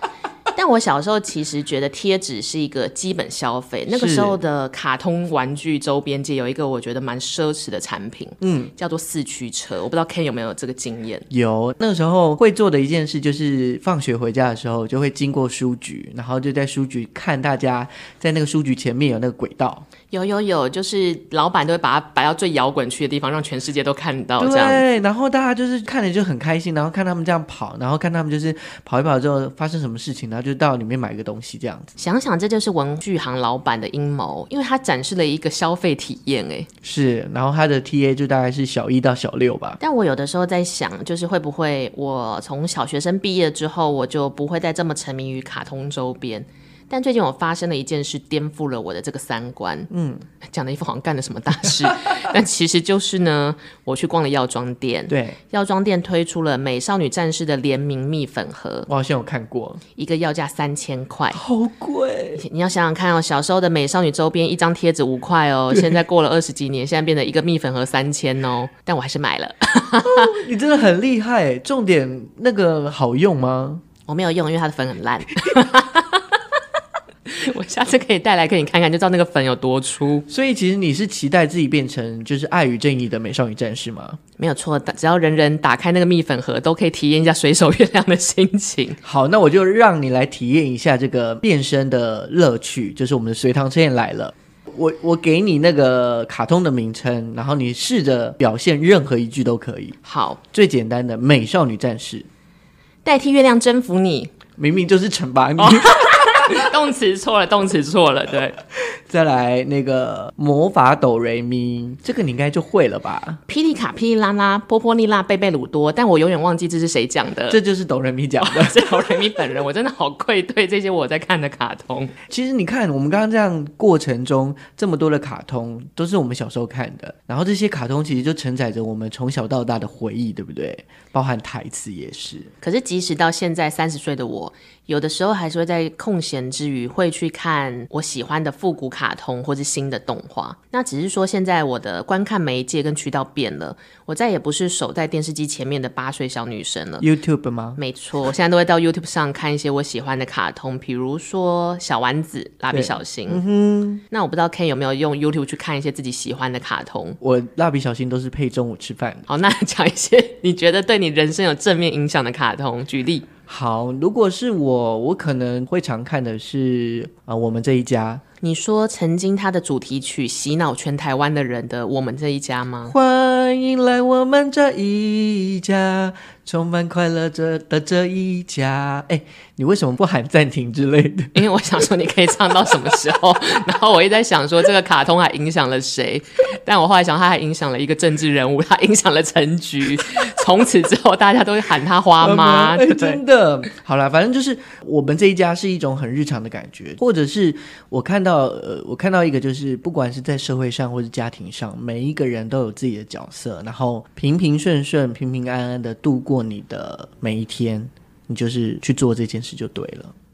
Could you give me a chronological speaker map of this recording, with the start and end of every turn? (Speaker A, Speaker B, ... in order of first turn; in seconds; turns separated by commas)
Speaker A: 0.6-11.3, Speaker B: 3.9-4.4, Speaker B: 8.4-8.7, Speaker B: 11.3-19.9, Speaker A: 20.1-24.8, Speaker B: 24.4-31.9, Speaker A: 32.0-36.7, Speaker B: 36.8-39.8, Speaker A: 39.8-49.9, Speaker B: 49.9-50.2, Speaker A: 50.5-58.9, Speaker B: 55.1-55.4, Speaker B: 58.9-59.8, Speaker A: 60.0-61.4, Speaker B: 61.3-62.4, Speaker A: 62.4-70.4, Speaker B: 70.0-73.8, Speaker A: 74.1-76.4, Speaker A: 77.3-80.3, Speaker B: 80.3-84.2, Speaker A: 84.4-89.0, Speaker B: 89.0-100.0, Speaker A: 100.0-100.4, Speaker B: 100.5-102.3, Speaker A: 103.0-104.3, Speaker B: 104.6-106.0, Speaker A: 105.6-108.6, Speaker B: 109.1-113.4, Speaker A: 113.5-117.6, Speaker B: 117.5-118.8, Speaker A: 118.4-122.1, Speaker B: 122.3-132.5, Speaker A: 132.6-147.1, Speaker B: 147.0-147.8, Speaker A: 147.8-153.4, Speaker B: 152.7-154.0, Speaker A: 154.1-157.2, Speaker B: 157.2-159.3, Speaker A: 159.3-163.3, Speaker B: 163.5-168.2, Speaker A: 168.4-172.9, Speaker B: 172.9-181.3, Speaker A: 181.3-193.2, Speaker B: 192.2-210.1